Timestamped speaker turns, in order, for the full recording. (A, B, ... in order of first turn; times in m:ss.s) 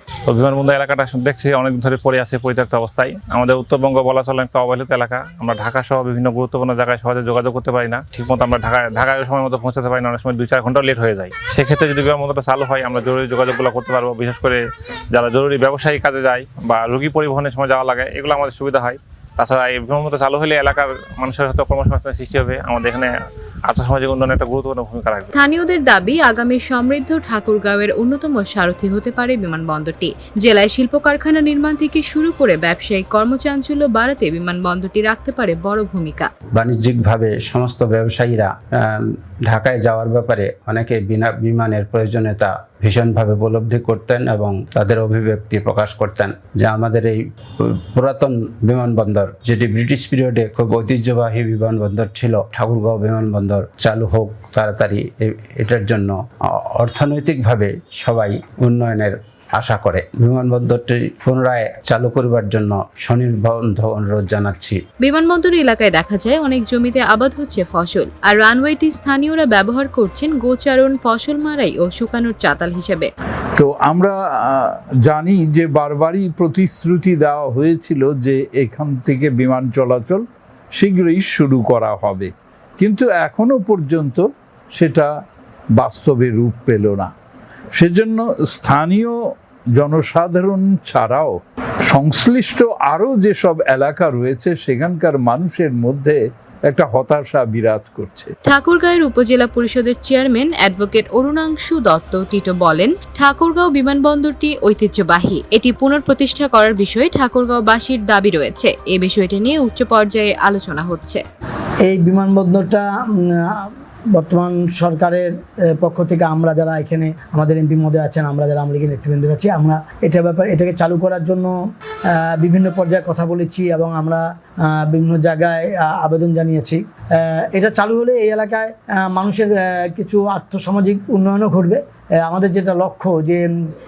0:00.3-0:14.6 A
0:15.1-0:23.1 A
0:23.7-0:25.3 A
0:25.3-0:36.3 B
0:36.5-1:04.8 C
1:05.0-1:13.1 B
1:13.6-1:20.2 D
1:20.8-1:25.1 D
1:25.8-1:27.1 D
1:27.8-1:29.1 D
1:29.8-1:31.3 D
1:31.9-1:36.2 D
1:36.7-1:38.3 D
1:38.4-1:51.2 B
1:51.8-2:01.5 E
2:02.1-2:13.5 E